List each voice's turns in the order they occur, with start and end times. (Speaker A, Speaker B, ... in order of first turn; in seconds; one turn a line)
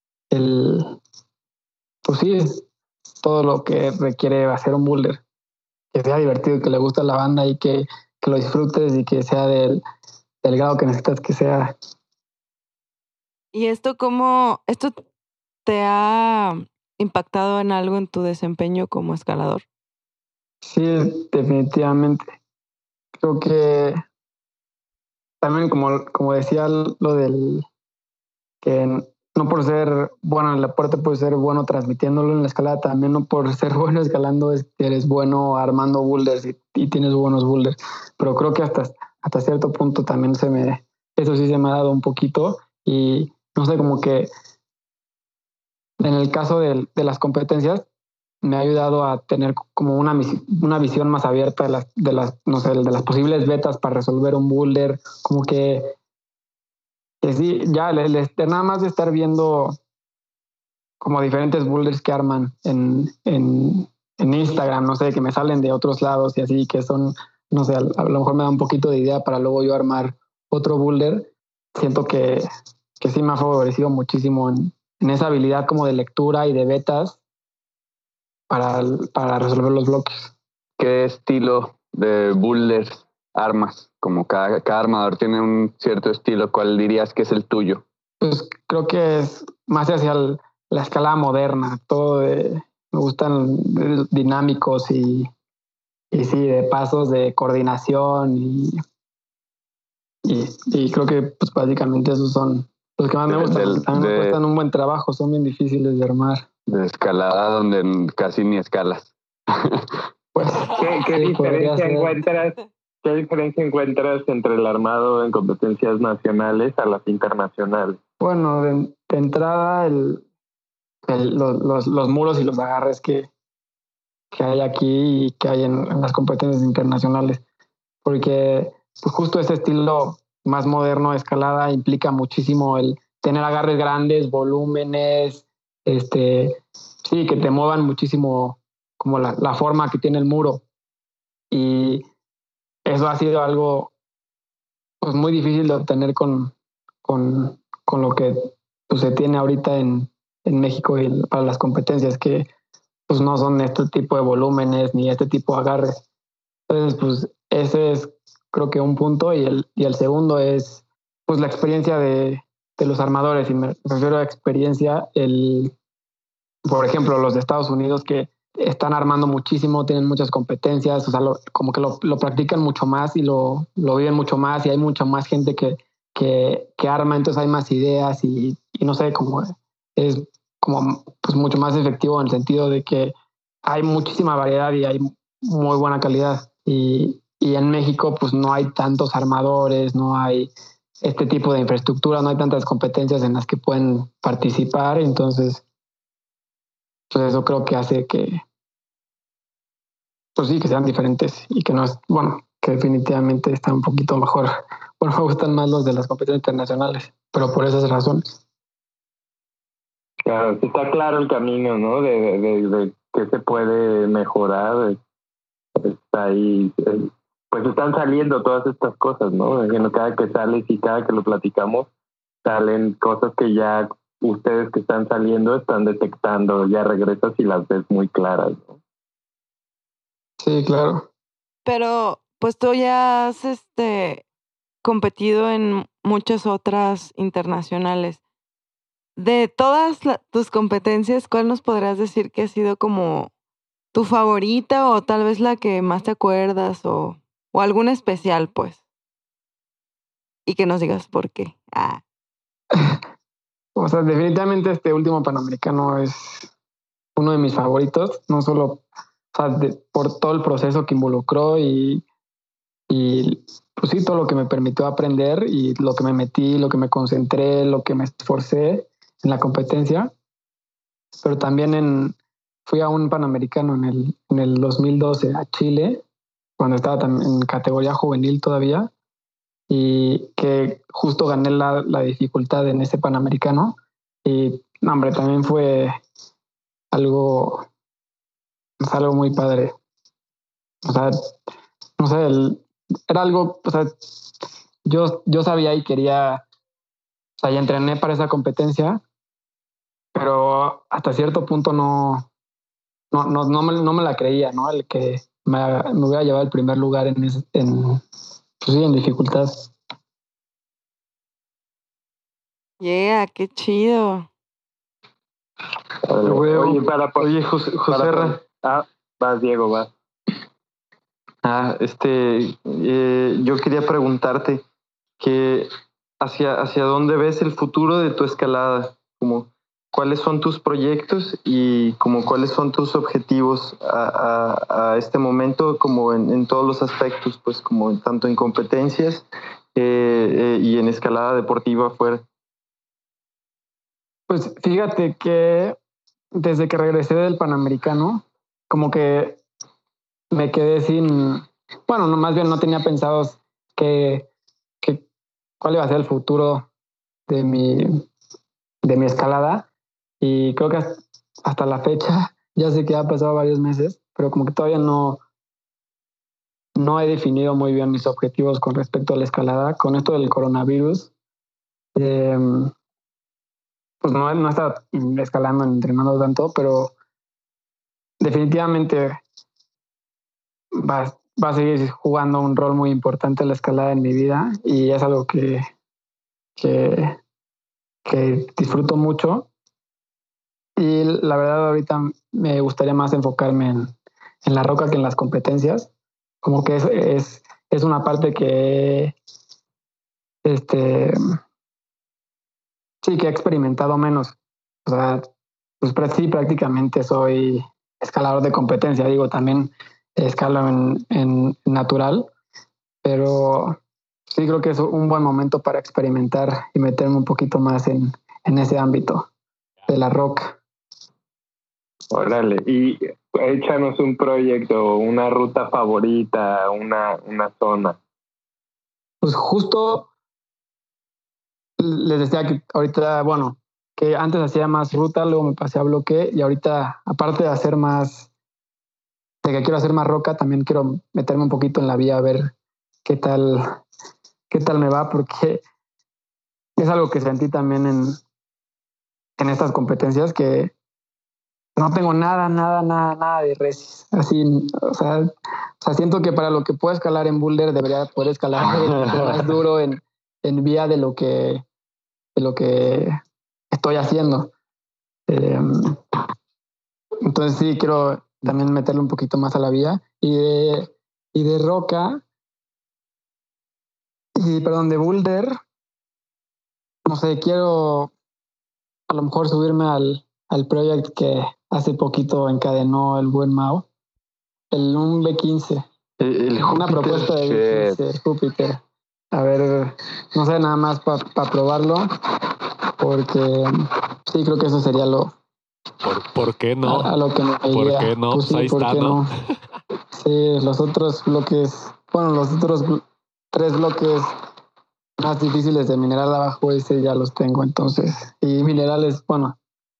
Speaker A: 0.3-1.0
Speaker A: 2.0-2.6
Speaker A: 3.2-5.2
Speaker A: 5.9-9.8
Speaker A: 10.4-11.7
Speaker B: 13.5-14.9
Speaker B: 15.6-19.6
Speaker A: 20.6-22.2
Speaker A: 23.2-24.0
Speaker A: 25.4-27.6
Speaker A: 28.6-44.3
Speaker A: 46.0-47.8
Speaker A: 48.4-55.9
Speaker A: 57.2-59.8
Speaker A: 61.0-72.5
Speaker A: 73.0-77.2
Speaker A: 78.5-80.3
Speaker C: 80.8-87.8
Speaker A: 88.2-95.3
Speaker A: 96.1-98.8
Speaker A: 100.2-106.4
Speaker C: 103.3-104.4
Speaker C: 106.7-110.0
Speaker A: 110.3-112.1
Speaker D: 110.8-118.0
Speaker A: 118.2-120.2
Speaker A: 121.1-123.3
Speaker A: 124.3-127.4
Speaker A: 128.0-140.6
Speaker A: 141.5-142.0
Speaker A: 142.8-143.9
Speaker A: 145.0-146.5
Speaker A: 147.0-152.5
Speaker A: 153.1-156.0
Speaker A: 156.7-165.7
Speaker A: 166.7-183.1
Speaker A: 183.6-195.6
Speaker A: 197.1-198.4
Speaker A: 200.3-208.4
Speaker D: 210.2-215.0
Speaker D: 215.8-221.9
Speaker D: 222.4-228.8
Speaker A: 230.4-231.1
Speaker B: 231.7-234.2
Speaker B: 234.8-238.2
Speaker B: 239.2-243.3
Speaker B: 243.9-248.8
Speaker B: 250.4-252.0
Speaker A: 253.8-256.5
Speaker A: 257.1-258.8
Speaker A: 259.3-262.0
Speaker A: 262.9-270.1
Speaker A: 271.2-276.0
Speaker A: 276.6-278.9
Speaker A: 279.7-286.0
Speaker A: 286.9-287.6
Speaker A: 288.8-289.7
Speaker A: 290.8-291.1
Speaker A: 292.0-293.9
Speaker A: 294.9-296.4
Speaker A: 297.4-299.0
Speaker A: 300.1-302.3
Speaker A: 303.1-308.0
Speaker A: 308.6-309.7
Speaker B: 312.8-314.3
Speaker D: 316.1-317.3
Speaker A: 316.2-316.8
Speaker E: 317.2-318.4
Speaker D: 317.9-319.9
Speaker E: 321.4-324.6
Speaker E: 325.2-342.2
Speaker A: 344.3-345.8
Speaker A: 346.3-349.4
Speaker A: 350.3-354.3
Speaker A: 355.6-356.6
Speaker A: 357.3-358.0
Speaker A: 358.8-359.7
Speaker A: 360.2-365.2
Speaker A: 366.8-371.1
Speaker A: 371.9-372.7
Speaker A: 374.0-376.9
Speaker A: 378.2-379.2
Speaker A: 380.7-385.6
Speaker A: 386.6-387.2
Speaker A: 388.0-389.5
Speaker A: 390.8-393.9
Speaker A: 394.4-395.9
Speaker A: 396.4-399.1
Speaker A: 400.4-401.1
Speaker A: 403.0-404.3
Speaker A: 404.9-405.3
Speaker A: 405.8-412.3
Speaker A: 413.0-419.3
Speaker A: 419.9-420.6
Speaker D: 422.1-428.0
Speaker A: 429.2-430.1
Speaker A: 431.8-438.3
Speaker A: 439.4-442.5
Speaker A: 443.0-443.6
Speaker A: 444.5-445.6
Speaker A: 446.8-448.2
Speaker A: 449.4-450.7
Speaker A: 451.8-461.6
Speaker C: 458.6-459.6
Speaker A: 462.4-463.1
Speaker A: 463.7-464.5
Speaker A: 465.3-465.9
Speaker A: 467.2-472.2
Speaker A: 474.4-475.5
Speaker A: 477.1-478.1
Speaker A: 479.1-483.9
Speaker A: 484.7-485.8
Speaker E: 486.2-487.3
Speaker A: 486.7-488.8
Speaker C: 487.1-488.0
Speaker A: 489.3-492.1
Speaker A: 493.0-493.8
Speaker A: 494.3-495.3
Speaker F: 496.0-497.1
Speaker A: 496.8-499.3
Speaker F: 497.7-499.2
Speaker A: 500.1-504.3
Speaker A: 505.2-509.6